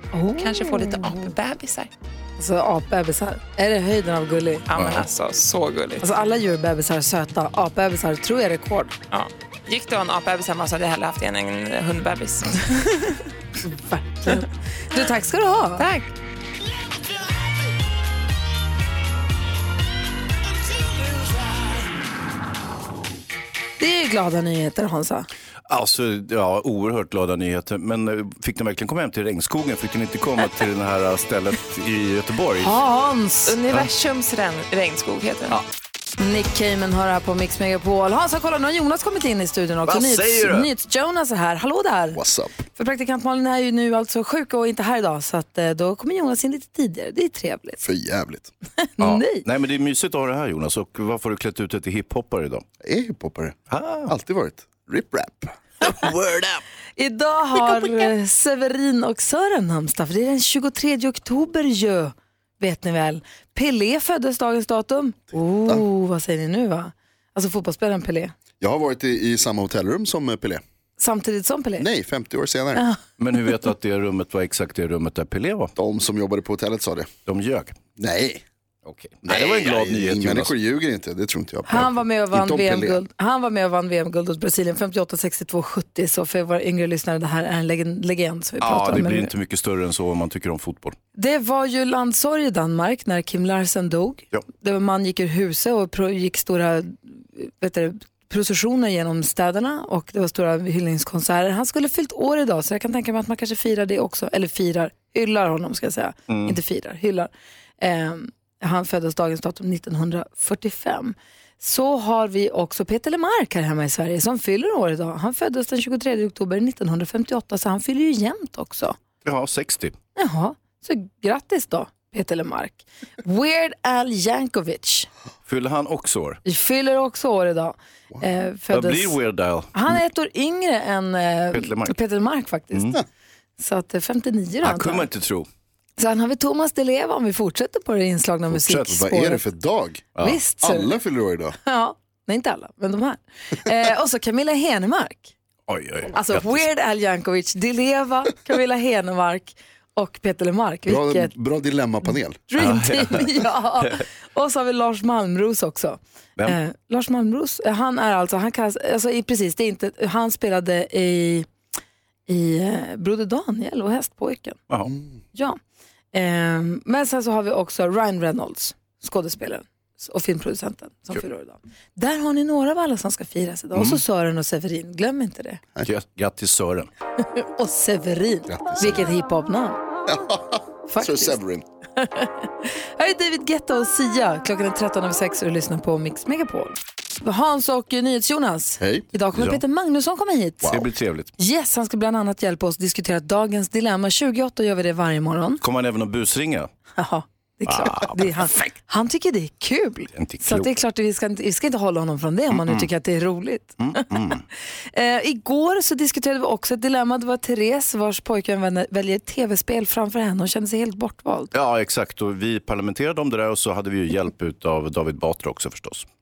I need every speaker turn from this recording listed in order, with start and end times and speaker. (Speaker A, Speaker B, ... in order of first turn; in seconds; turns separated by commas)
Speaker A: 0.1-1.3, Speaker B: 0.4-1.9, Speaker A: 2.4-4.7, Speaker B: 4.7-6.0, Speaker C: 4.8-5.0, Speaker A: 6.0-8.9, Speaker B: 9.1-12.6, Speaker A: 13.7-15.9, Speaker B: 15.8-16.1, Speaker A: 23.8-25.3, Speaker C: 25.7-32.8, Speaker A: 32.6-33.6, Speaker B: 33.5-35.6, Speaker A: 36.2-42.2, Speaker C: 39.9-40.7, Speaker D: 42.1-42.5, Speaker A: 42.8-47.8, Speaker D: 47.8-48.5, Speaker A: 48.8-49.5, Speaker C: 49.0-52.6, Speaker D: 52.8-53.6, Speaker C: 53.7-54.1, Speaker D: 54.1-55.5, Speaker C: 56.0-56.6, Speaker A: 57.0-68.3, Speaker D: 68.6-70.6, Speaker A: 71.0-71.9, Speaker D: 71.8-72.8, Speaker C: 73.2-75.7, Speaker D: 75.8-77.1, Speaker C: 77.3-77.8, Speaker D: 78.0-78.4, Speaker C: 78.8-80.5, Speaker D: 79.2-83.0, Speaker A: 81.7-89.3, Speaker C: 88.6-91.0, Speaker A: 91.2-119.0, Speaker C: 106.3-106.6, Speaker C: 119.2-120.0, Speaker A: 120.2-125.1, Speaker C: 125.5-126.4, Speaker A: 126.5-129.2, Speaker C: 128.7-129.7, Speaker A: 129.7-132.9, Speaker C: 131.5-132.0, Speaker C: 132.7-133.0, Speaker A: 133.6-135.1, Speaker C: 134.6-135.5, Speaker A: 136.0-139.4, Speaker D: 138.5-141.6, Speaker A: 140.2-140.9, Speaker A: 141.6-145.3, Speaker C: 145.7-146.6, Speaker A: 146.1-151.3, Speaker D: 150.9-152.5, Speaker A: 152.5-161.5, Speaker C: 152.6-153.3, Speaker A: 162.3-164.6, Speaker A: 165.3-165.6, Speaker A: 166.1-175.6, Speaker C: 173.8-174.0, Speaker C: 175.8-176.9, Speaker A: 177.2-179.8, Speaker D: 178.5-179.0, Speaker D: 180.1-181.7, Speaker A: 180.9-181.4, Speaker A: 182.0-190.8, Speaker D: 188.8-189.1, Speaker C: 189.3-189.6, Speaker C: 190.7-191.3, Speaker A: 191.4-195.6, Speaker C: 195.6-196.7, Speaker A: 197.0-204.1, Speaker C: 197.7-198.7, Speaker C: 200.2-200.7, Speaker C: 202.5-202.9, Speaker C: 203.8-204.4, Speaker A: 204.9-211.5, Speaker C: 211.5-216.1